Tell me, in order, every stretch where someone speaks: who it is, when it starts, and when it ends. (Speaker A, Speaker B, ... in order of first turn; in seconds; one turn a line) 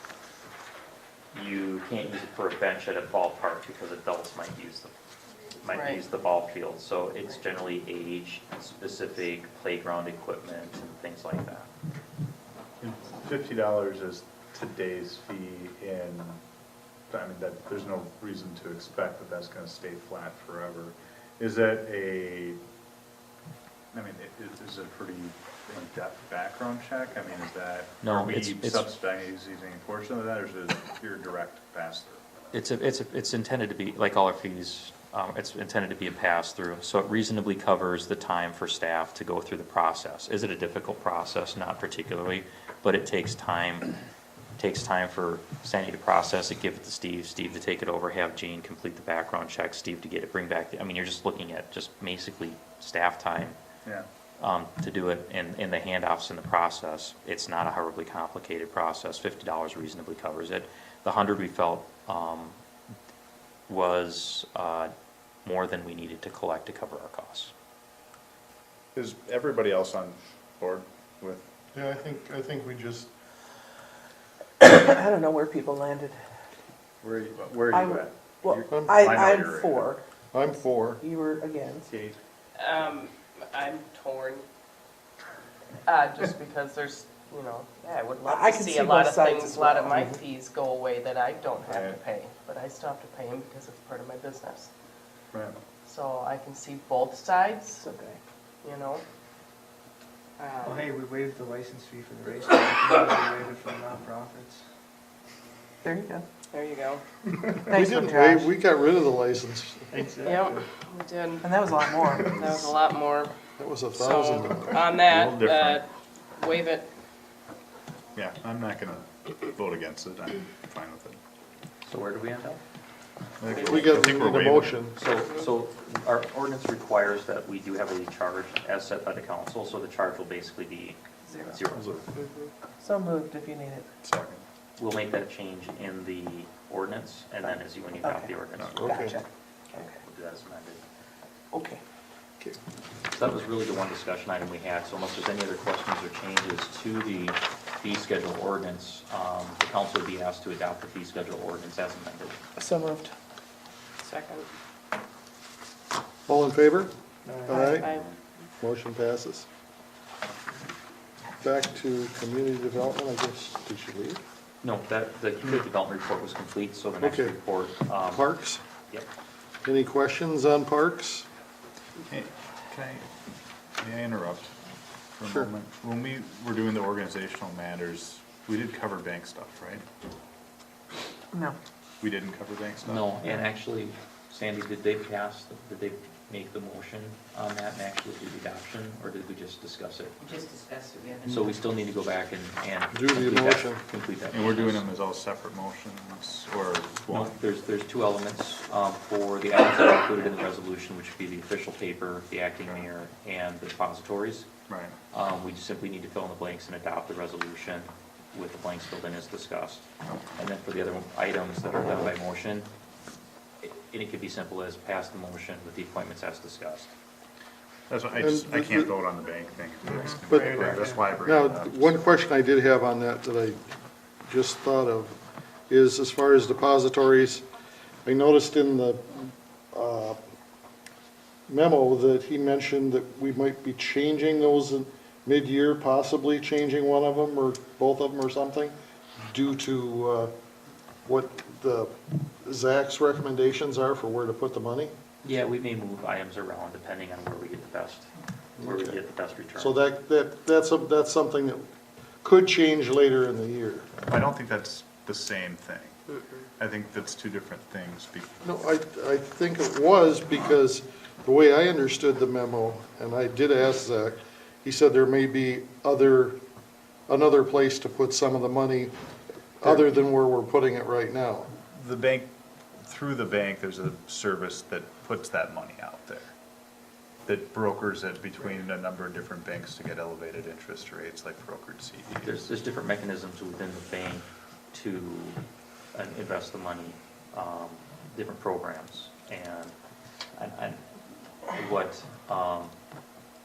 Speaker A: 1.3-4.9
Speaker A: 5.6-11.7
Speaker B: 5.7-6.0
Speaker C: 12.8-16.4
Speaker C: 17.1-22.6
Speaker C: 23.9-32.5
Speaker A: 28.0-28.9
Speaker A: 32.5-43.9
Speaker A: 44.6-53.6
Speaker A: 54.4-62.6
Speaker A: 63.7-64.9
Speaker A: 65.4-67.5
Speaker C: 68.9-71.5
Speaker D: 71.7-73.1
Speaker E: 74.6-76.1
Speaker C: 77.0-79.9
Speaker F: 77.7-78.6
Speaker D: 78.7-79.1
Speaker E: 78.8-80.0
Speaker D: 80.3-81.0
Speaker E: 81.1-81.8
Speaker C: 81.8-82.2
Speaker G: 83.5-84.0
Speaker B: 84.0-84.4
Speaker G: 85.9-88.2
Speaker B: 85.9-94.7
Speaker F: 88.2-90.0
Speaker G: 91.7-92.4
Speaker C: 91.7-92.0
Speaker C: 95.3-95.6
Speaker B: 95.9-97.8
Speaker G: 96.2-97.0
Speaker B: 98.6-99.0
Speaker B: 100.4-100.8
Speaker F: 100.6-104.6
Speaker E: 106.0-106.2
Speaker B: 106.5-107.0
Speaker D: 107.7-109.9
Speaker E: 107.7-108.5
Speaker F: 109.9-110.7
Speaker B: 110.3-113.3
Speaker F: 111.4-112.1
Speaker E: 111.8-112.4
Speaker D: 113.6-114.9
Speaker B: 113.9-115.5
Speaker C: 114.9-115.8
Speaker G: 115.1-115.8
Speaker B: 116.4-116.8
Speaker C: 118.1-121.2
Speaker A: 121.9-122.6
Speaker C: 123.4-124.8
Speaker A: 123.5-124.0
Speaker D: 123.6-125.0
Speaker A: 125.0-132.0
Speaker C: 131.7-132.1
Speaker E: 133.1-133.8
Speaker C: 134.0-134.4
Speaker A: 134.8-139.1
Speaker C: 138.6-138.9
Speaker D: 138.8-139.2
Speaker A: 139.8-140.8
Speaker A: 143.1-152.4
Speaker E: 152.6-153.1
Speaker D: 156.3-156.9
Speaker F: 157.2-157.6
Speaker D: 157.5-157.9
Speaker B: 157.5-158.1
Speaker D: 158.6-159.5
Speaker D: 161.4-164.2
Speaker A: 164.6-168.3
Speaker D: 167.0-167.3
Speaker D: 168.0-168.6
Speaker D: 169.7-171.2
Speaker C: 172.1-173.1
Speaker C: 173.8-174.5
Speaker C: 175.2-179.8
Speaker C: 182.0-183.1
Speaker A: 182.8-190.2
Speaker G: 190.2-191.2
Speaker A: 191.2-194.8
Speaker D: 192.9-193.8
Speaker C: 194.3-197.4
Speaker A: 197.1-204.5
Speaker C: 204.7-204.9
Speaker A: 205.1-209.8
Speaker A: 210.4-212.7
Speaker A: 213.6-216.9
Speaker C: 217.9-222.0
Speaker D: 218.2-218.9
Speaker D: 220.3-223.6
Speaker F: 220.4-220.9
Speaker D: 224.2-225.2
Speaker D: 225.7-227.4
Speaker D: 228.0-230.2
Speaker D: 231.5-238.8
Speaker D: 239.3-240.3
Speaker D: 241.1-244.9
Speaker A: 245.2-249.8
Speaker D: 248.6-249.0
Speaker D: 249.6-251.6
Speaker D: 252.2-253.9
Speaker C: 254.1-258.4
Speaker D: 258.4-266.4
Speaker D: 267.1-268.9
Speaker D: 269.6-271.5
Speaker C: 271.7-272.3
Speaker C: 272.8-276.3
Speaker C: 277.3-282.4
Speaker A: 282.2-285.4
Speaker A: 285.9-289.8
Speaker A: 290.4-290.8
Speaker A: 291.5-292.8